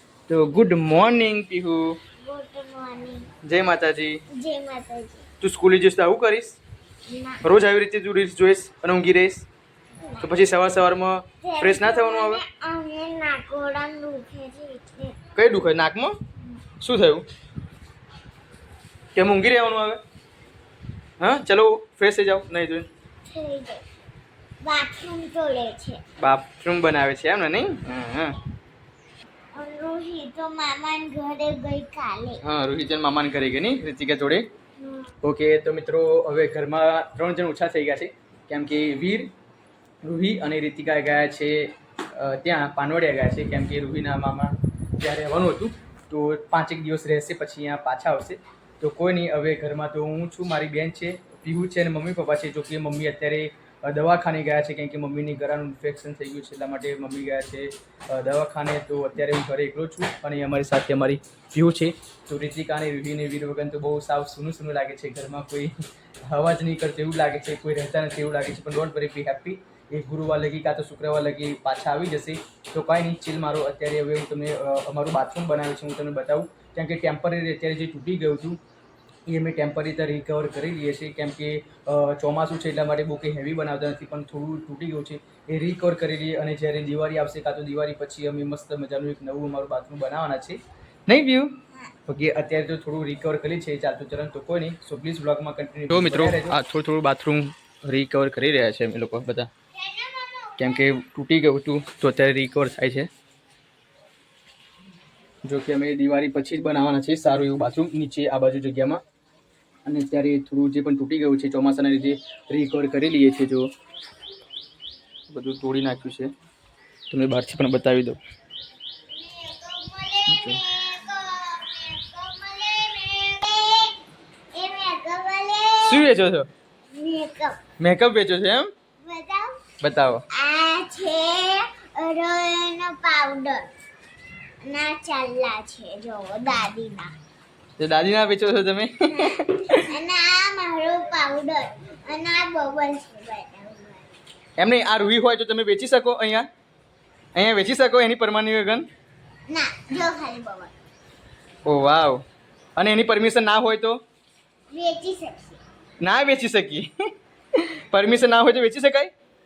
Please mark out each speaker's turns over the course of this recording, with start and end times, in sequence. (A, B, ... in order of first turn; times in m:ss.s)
0:00.3-0:02.0 A
0:02.2-0:03.3 B
0:03.4-0:04.2 A
0:04.3-0:05.2 B
0:05.4-0:06.6 A
0:07.1-0:07.4 B
0:07.4-0:09.4 A
0:10.2-0:12.4 A
0:11.4-0:15.2 B
0:15.4-0:16.2 A
0:16.8-0:17.2 A
0:19.1-0:20.0 A
0:21.2-0:22.9 A
0:23.3-0:23.8 B
0:24.6-0:26.0 B
0:26.2-0:28.4 A
0:29.6-0:32.4 B
0:32.4-0:34.4 A
0:34.8-0:35.1 B
0:35.2-0:39.3 A
0:40.0-1:05.7 A
1:06.3-1:18.6 A
1:19.3-1:39.5 A
1:39.7-1:40.8 B
1:40.6-1:43.1 A
1:45.4-1:49.0 A
1:49.8-1:53.7 A
1:55.3-1:56.3 A
1:57.1-1:58.2 A
1:59.1-2:04.0 B
2:00.3-2:00.6 A
2:04.5-2:06.1 B
2:05.8-2:06.5 A
2:06.9-2:07.6 B
2:07.8-2:08.7 A
2:09.0-2:09.6 B
2:09.8-2:10.2 A
2:10.3-2:13.7 B
2:14.6-2:17.1 B
2:17.8-2:19.8 A
2:19.1-2:24.0 B
2:24.6-2:26.5 A
2:27.3-2:28.9 A
2:29.5-2:30.7 B
2:31.6-2:32.2 A
2:32.8-2:34.0 A
2:34.7-2:35.6 B
2:36.0-2:36.9 A
2:37.6-2:39.1 A